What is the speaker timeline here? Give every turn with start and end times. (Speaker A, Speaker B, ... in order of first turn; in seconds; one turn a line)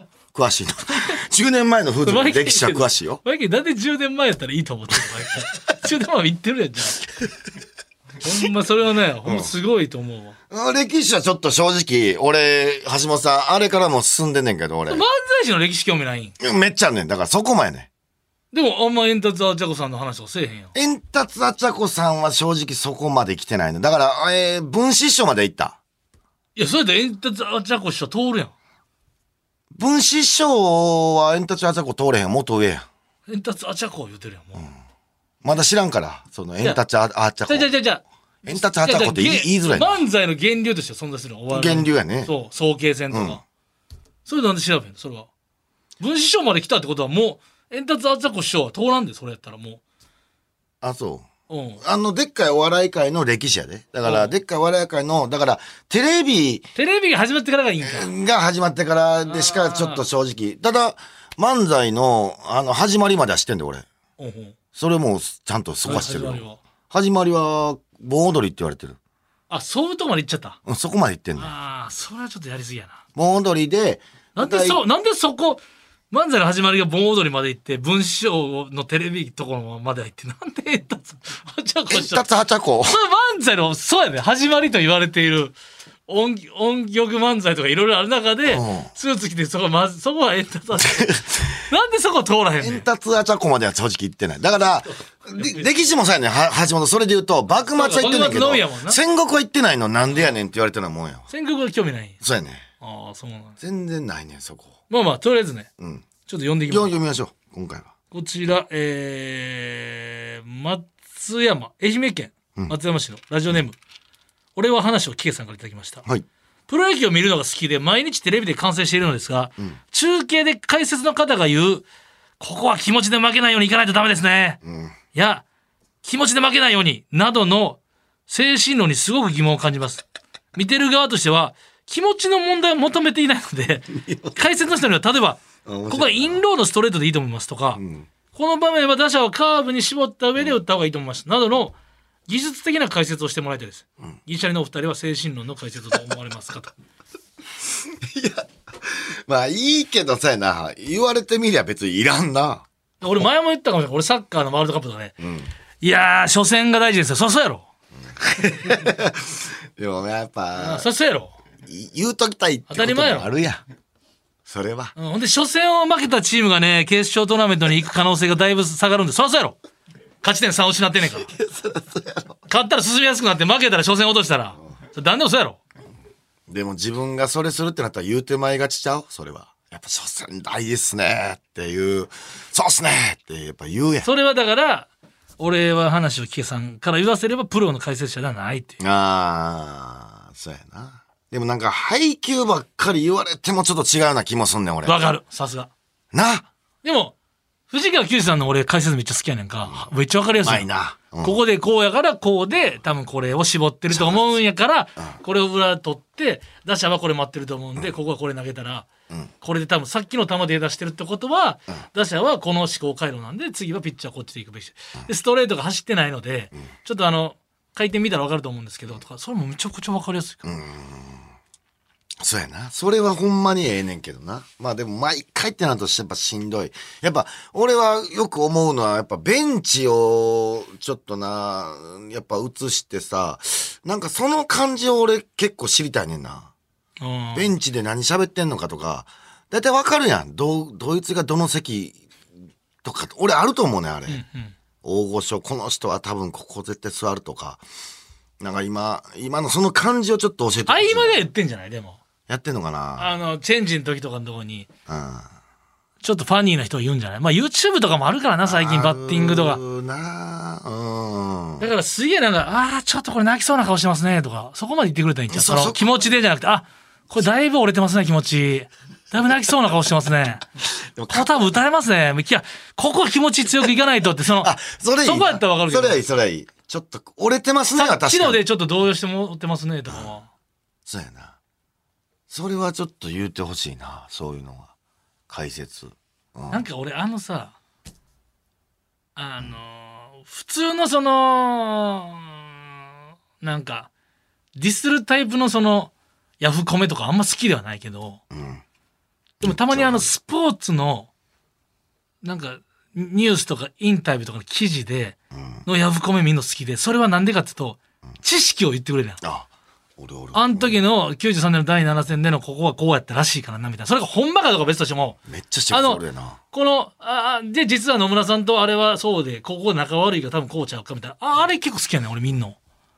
Speaker A: 0.3-3.2
Speaker B: 2.0-7.0
Speaker B: 8.2-10.3
Speaker A: 9.2-9.5
Speaker A: 10.5-15.0
Speaker B: 14.9-16.3
Speaker A: 16.4-17.9
Speaker B: 18.5-20.7
Speaker A: 20.7-25.8
Speaker B: 26.5-28.5
Speaker A: 29.7-32.9
Speaker B: 33.3-34.7
Speaker A: 35.4-37.7
Speaker B: 37.5-43.4
Speaker A: 38.5-40.0
Speaker A: 41.5-42.3
Speaker A: 43.1-43.4
Speaker B: 44.2-45.3
Speaker B: 46.0-49.8
Speaker A: 50.8-51.3
Speaker B: 51.5-51.8
Speaker A: 51.8-56.7
Speaker B: 54.0-54.3
Speaker B: 56.7-58.1
Speaker A: 57.8-63.9
Speaker B: 59.2-60.0
Speaker B: 64.2-64.5
Speaker A: 64.7-69.0
Speaker B: 65.8-66.6
Speaker B: 69.5-70.6
Speaker A: 70.7-71.5
Speaker B: 71.3-73.0
Speaker A: 73.2-74.8
Speaker B: 74.3-82.2
Speaker A: 81.9-83.0
Speaker B: 82.8-85.5
Speaker B: 86.1-92.9
Speaker A: 88.5-88.9
Speaker A: 90.8-91.6
Speaker A: 92.6-101.3
Speaker B: 94.9-95.7
Speaker B: 97.7-99.0
Speaker B: 101.3-102.2
Speaker A: 102.2-102.6
Speaker B: 102.8-103.6
Speaker A: 103.6-104.7
Speaker B: 104.9-105.7
Speaker A: 105.8-106.0
Speaker B: 106.2-106.9
Speaker A: 106.7-107.9
Speaker B: 108.1-113.8
Speaker B: 114.5-116.0
Speaker B: 116.7-121.8
Speaker B: 122.4-124.6
Speaker A: 124.6-125.0
Speaker B: 125.1-125.4
Speaker B: 126.0-130.0
Speaker B: 130.5-137.8
Speaker A: 134.0-134.3
Speaker A: 135.6-136.4
Speaker A: 137.8-138.1
Speaker B: 138.3-141.8
Speaker B: 142.3-146.7
Speaker A: 147.7-152.6
Speaker B: 153.0-155.2
Speaker A: 155.2-155.5
Speaker B: 155.8-157.7
Speaker A: 158.1-160.8
Speaker B: 160.6-161.3
Speaker A: 161.6-163.6
Speaker B: 162.7-163.3
Speaker A: 164.4-164.9
Speaker B: 164.9-169.6
Speaker B: 170.2-171.3
Speaker A: 171.2-172.4
Speaker B: 172.5-175.6
Speaker A: 176.5-184.1
Speaker B: 184.0-188.8
Speaker A: 188.8-195.0
Speaker B: 194.8-195.7
Speaker A: 196.1-196.5
Speaker B: 196.8-197.1
Speaker B: 197.7-200.7
Speaker A: 200.4-201.4
Speaker B: 201.2-208.9
Speaker A: 203.9-204.4
Speaker B: 209.4-220.4
Speaker A: 220.4-221.3
Speaker A: 222.2-236.5
Speaker B: 237.0-237.5
Speaker A: 237.3-242.0
Speaker A: 242.8-244.2
Speaker B: 244.1-244.5
Speaker A: 244.8-247.6
Speaker A: 248.4-251.2
Speaker B: 250.7-252.0
Speaker A: 252.3-253.1
Speaker B: 253.0-254.7
Speaker A: 254.9-255.3
Speaker B: 256.0-259.6
Speaker A: 258.4-261.7
Speaker B: 261.6-270.4
Speaker A: 265.3-265.8
Speaker A: 270.9-271.3
Speaker B: 271.1-276.0
Speaker A: 274.4-278.4
Speaker B: 277.7-280.3
Speaker A: 280.9-281.4
Speaker A: 282.3-284.7
Speaker A: 285.3-286.6
Speaker B: 286.5-287.5
Speaker B: 289.1-292.8
Speaker B: 293.4-293.9
Speaker B: 294.6-298.2
Speaker A: 298.3-298.6
Speaker B: 299.4-301.1
Speaker A: 299.4-300.1
Speaker B: 302.2-309.2
Speaker A: 305.3-305.6
Speaker A: 309.2-310.7
Speaker B: 310.3-315.2
Speaker A: 315.3-316.4
Speaker B: 315.7-316.0
Speaker B: 316.5-322.6